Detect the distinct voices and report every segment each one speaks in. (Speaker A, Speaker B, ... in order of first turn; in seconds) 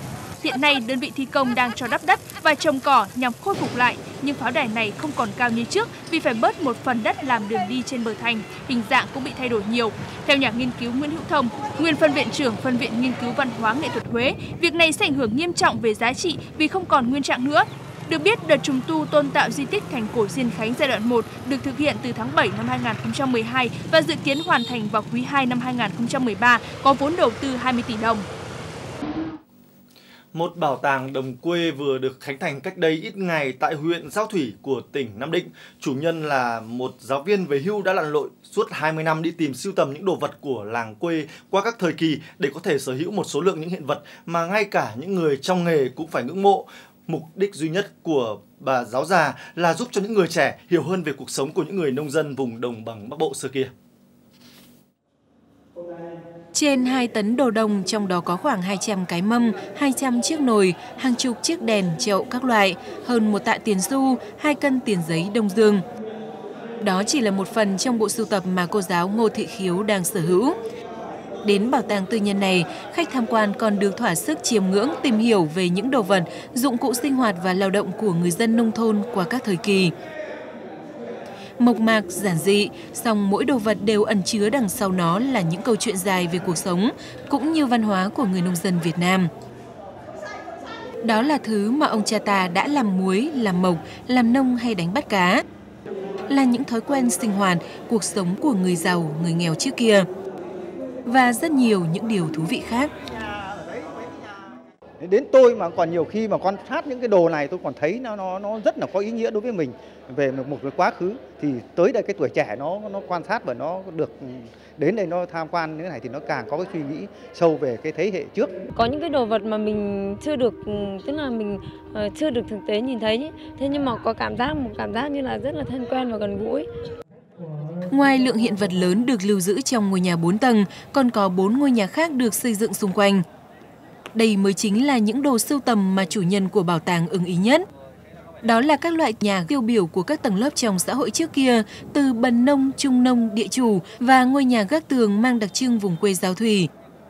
Speaker A: 0.4-28.2
Speaker B: 30.3-53.7
Speaker C: 56.5-65.8, 66.8-70.5, 71.4-79.9, 81.6-89.3, 91.0-95.4, 96.3-100.1, 101.0-102.9, 127.9-133.2, 134.1-137.6, 138.4-146.7
Speaker D: 105.0-118.6
Speaker E: 118.7-126.7